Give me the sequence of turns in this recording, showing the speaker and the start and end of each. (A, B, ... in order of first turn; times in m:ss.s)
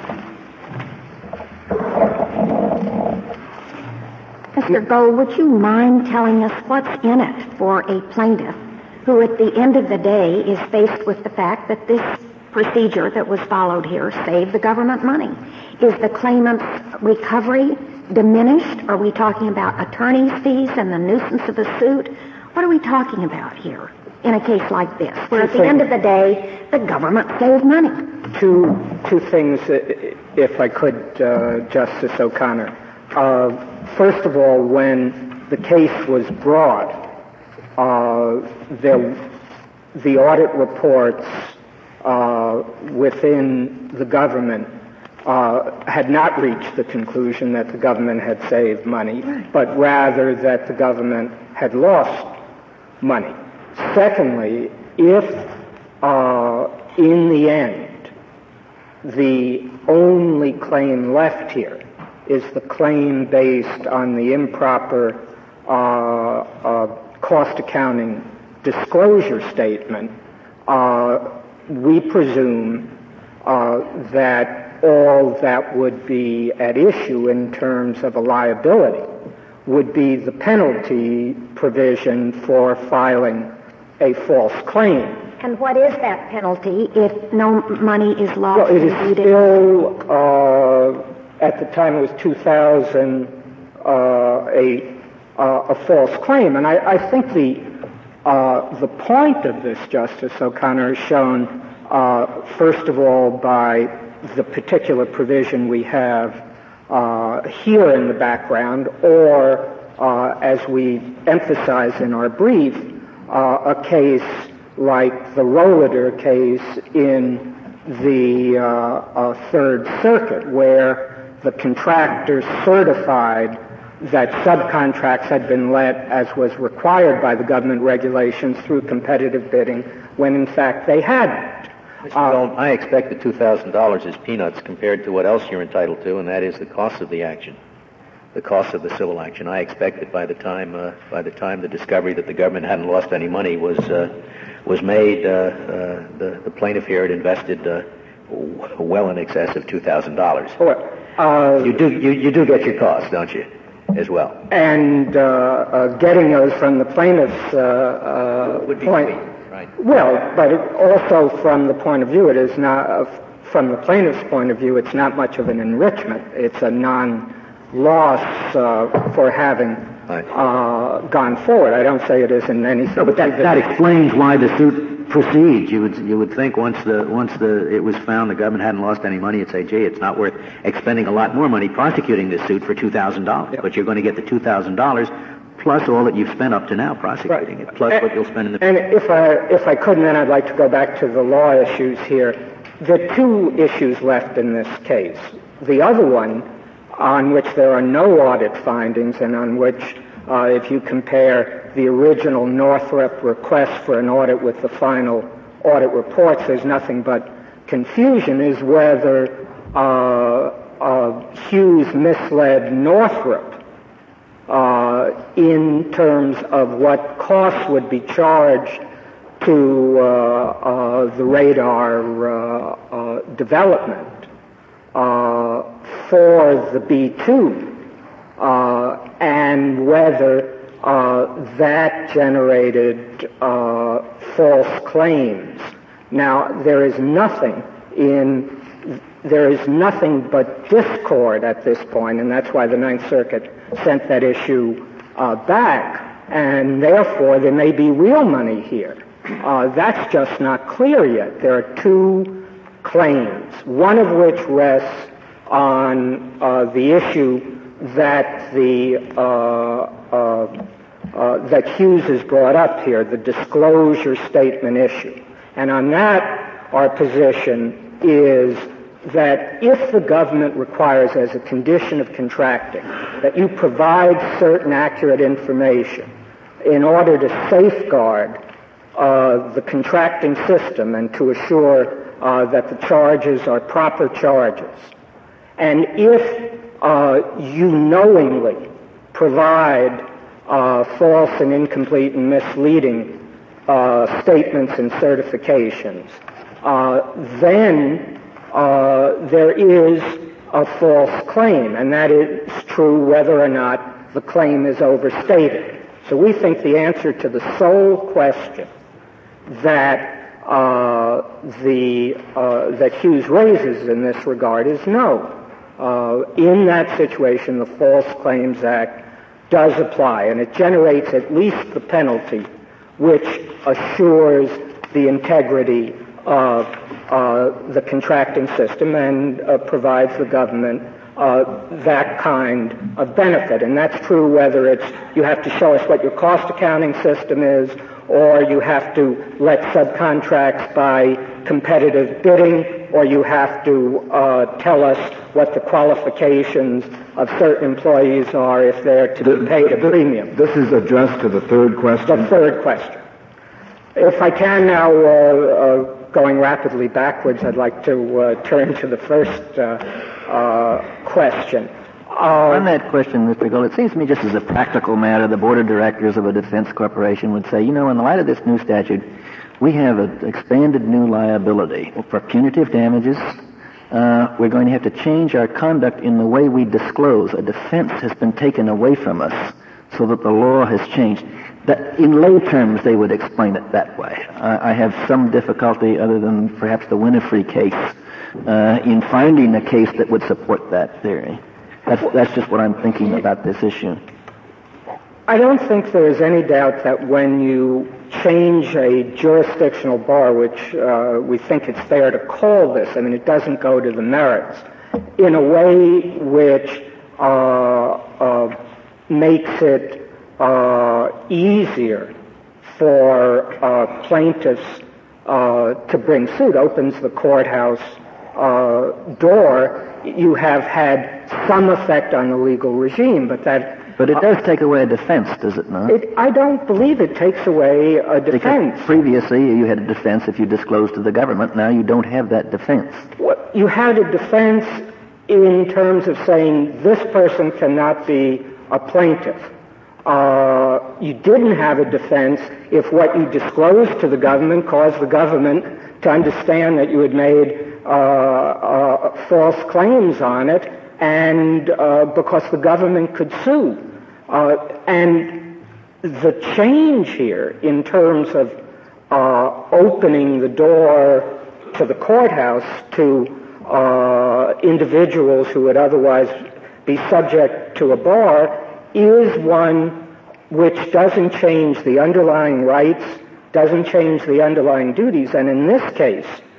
0:04.5-0:28.1 A
0:25.3-0:25.8 B
0:28.3-0:37.1 B
0:37.8-0:39.2 B
0:39.9-0:44.7 B
0:45.2-0:52.3 B
0:53.0-0:58.1 B
0:59.0-1:10.1 B
1:10.7-1:19.1 B
1:19.6-1:25.3 B
1:25.4-1:29.3 A
1:28.5-1:37.7 B
1:38.2-2:12.4 B
2:12.0-2:17.6 C
2:18.3-2:24.1 C
2:24.6-2:30.6 C
2:30.6-2:31.9 B
2:31.6-2:34.4 C
2:34.5-2:39.2 B
2:38.7-2:39.6 C
2:39.8-2:53.7 B
2:53.0-3:08.6 C
3:07.3-3:08.0 B
3:08.6-3:33.6 B
3:34.5-3:38.8 B
3:39.4-3:44.2 B
3:44.9-3:47.8 B
3:48.4-4:20.6 B
4:21.1-4:36.1 B
4:36.6-4:38.4 B
4:38.9-4:44.9 B
4:45.6-5:08.7 B
5:09.5-5:50.4 B
5:49.2-5:52.4 D
5:52.0-5:53.0 B
5:53.9-6:02.7 B
6:02.5-6:09.0 E
6:09.6-6:13.4 E
6:13.9-6:34.0 E
6:35.3-6:44.6 B
6:45.2-6:48.6 B
6:49.1-6:52.1 B
6:52.6-7:04.2 B
7:04.0-7:06.0 E
7:05.9-7:08.9 B
7:08.3-7:13.1 E
7:13.2-7:19.5 B
7:20.0-7:38.6 B
7:39.1-7:56.4 B